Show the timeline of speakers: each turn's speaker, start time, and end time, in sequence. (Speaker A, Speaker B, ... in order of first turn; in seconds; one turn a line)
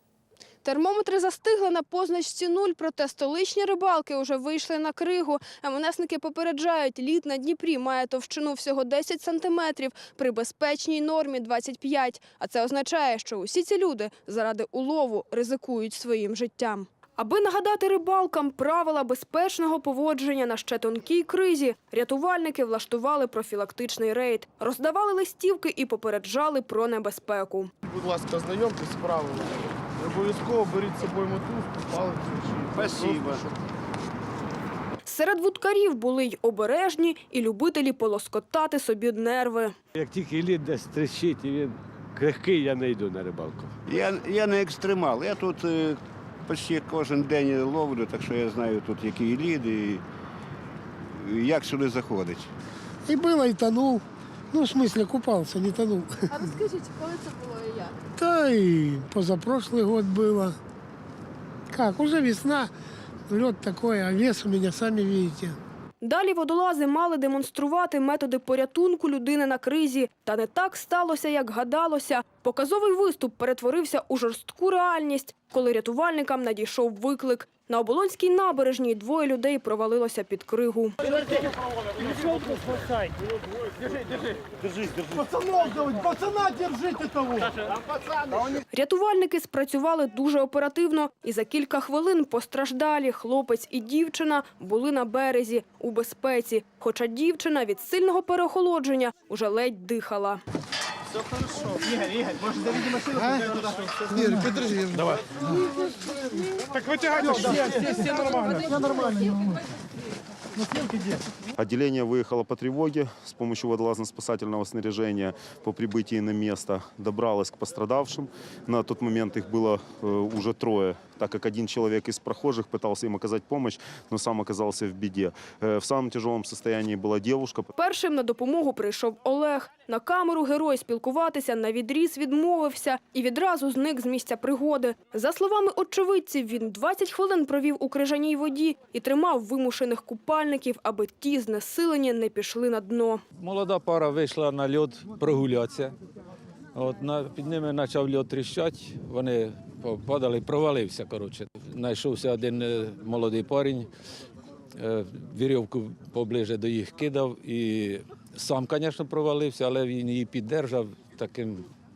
Speaker A: 0.6-27.7
Speaker B: 27.9-29.4
Speaker B: 30.0-33.1
Speaker C: 32.7-33.5
Speaker A: 35.0-39.8
Speaker D: 40.0-43.7
Speaker C: 43.9-50.0
Speaker C: 51.1-52.5
Speaker E: 53.0-56.4
Speaker A: 56.4-57.9
Speaker E: 58.1-60.5
Speaker E: 61.7-62.7
Speaker E: 63.3-65.6
Speaker A: 66.0-81.1
Speaker A: 88.7-100.4
Speaker A: 107.6-109.6
Speaker F: 111.6-127.7
Speaker A: 127.8-143.2
Speaker G: 143.4-145.9
Speaker G: 146.7-153.9
Speaker G: 154.8-161.7